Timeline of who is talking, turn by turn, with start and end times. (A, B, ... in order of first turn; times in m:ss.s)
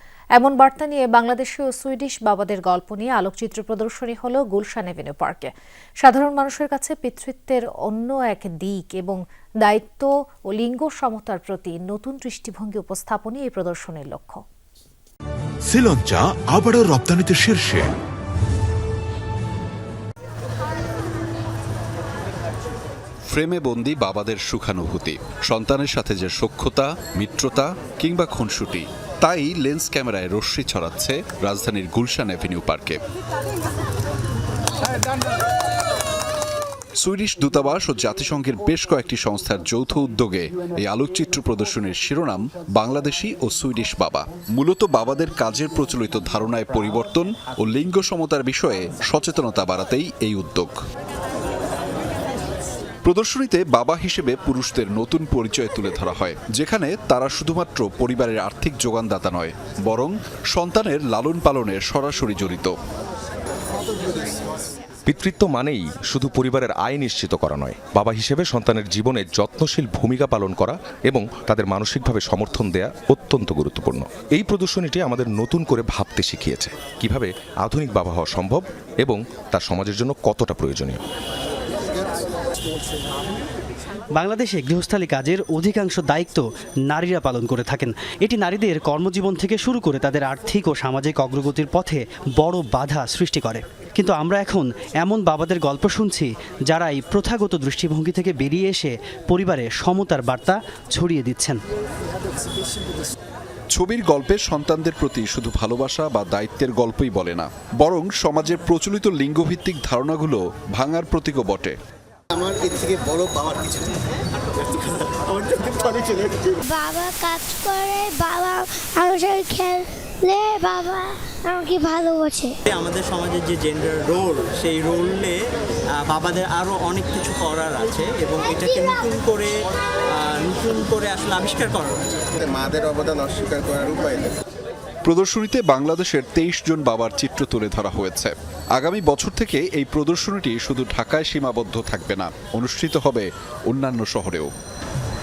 0:00.4-0:05.5 A
0:06.0-0:14.4 A
0:15.7-0:17.9 B
0:23.3-0:33.0 C
0:37.0-0:50.7 C
0:53.0-1:02.7 C
1:05.1-1:21.0 D
1:24.2-1:41.6 E
1:43.7-1:51.8 C
1:52.4-1:53.8 F
1:55.4-1:56.4 F
1:56.6-2:02.6 G
2:02.7-2:05.4 H
2:06.0-2:09.5 H
2:10.1-2:12.0 H
2:12.5-2:14.3 F
2:15.0-2:24.5 C